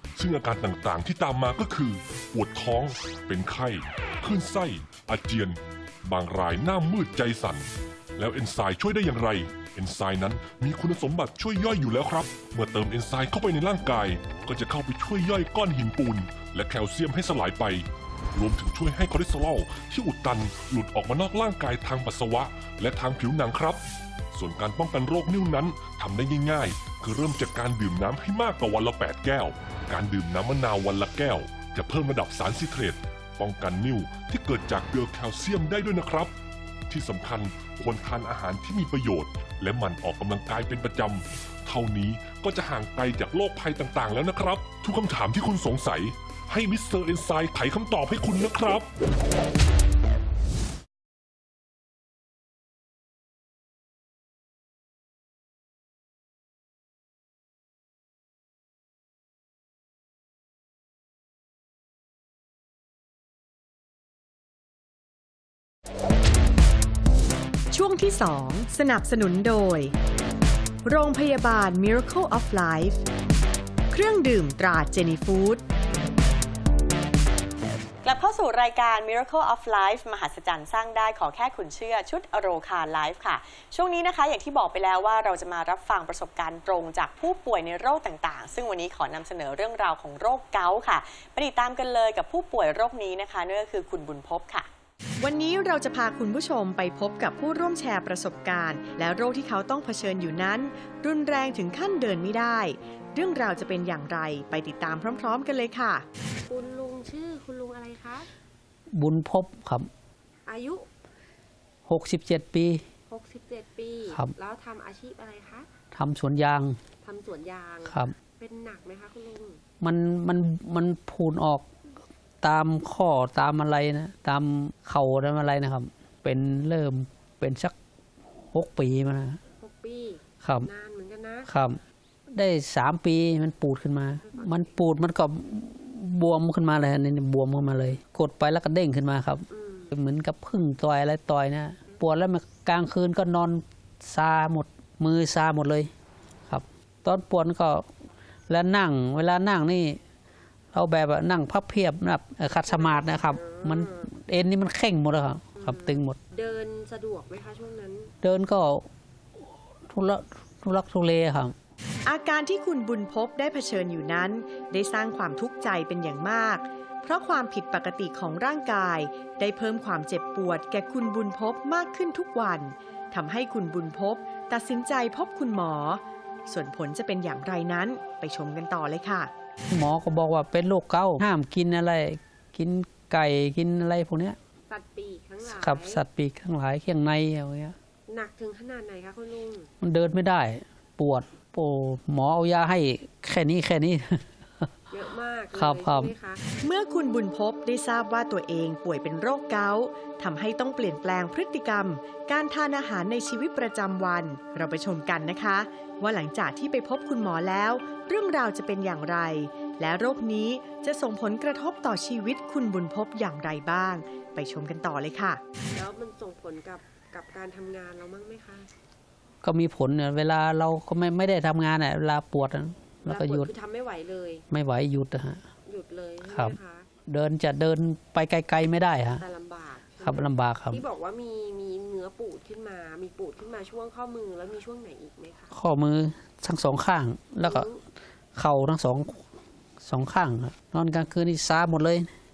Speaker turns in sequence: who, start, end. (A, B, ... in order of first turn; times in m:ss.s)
0:00.2-0:36.3 A
0:36.9-0:48.9 A
1:07.7-1:09.9 B
1:10.8-1:13.0 B
1:13.9-1:15.6 B
1:18.0-1:34.7 C
1:35.2-1:46.0 B
1:46.5-1:48.3 D
1:48.9-1:49.9 E
1:50.4-1:50.9 D
1:51.8-1:52.8 E
1:53.1-1:55.7 D
1:54.1-1:54.3 E
1:55.9-1:56.8 E
1:57.0-1:59.6 D
1:57.8-1:58.1 E
1:59.8-2:01.7 E
2:02.4-2:07.7 E
2:08.5-2:09.4 E
2:09.6-2:11.5 D
2:10.4-2:10.7 E
2:11.5-2:11.8 E
2:12.3-2:25.9 E
2:14.2-2:14.9 D
2:19.5-2:19.9 D
2:26.5-2:27.9 E
2:28.5-2:30.0 E
2:30.7-2:36.2 E
2:32.6-2:34.1 D
2:35.6-2:38.1 D
2:38.2-2:38.9 E
2:39.9-2:41.5 E
2:42.0-2:59.3 B
2:59.7-3:04.4 E
3:04.7-3:06.0 D
3:05.4-3:07.8 E
3:08.1-3:09.7 D
3:09.8-3:14.7 E
3:14.9-3:16.4 D
3:15.5-3:16.2 E
3:16.6-3:35.4 B
3:35.7-3:38.7 D
3:39.4-3:43.5 E
3:43.0-3:44.4 D
3:44.5-3:45.5 E
3:45.6-3:46.9 D
3:46.2-3:49.2 E
3:49.2-3:55.6 D
3:50.0-3:50.8 E
3:55.5-3:57.7 E
3:57.4-3:57.8 D
3:58.4-3:59.2 E
3:59.8-4:02.1 E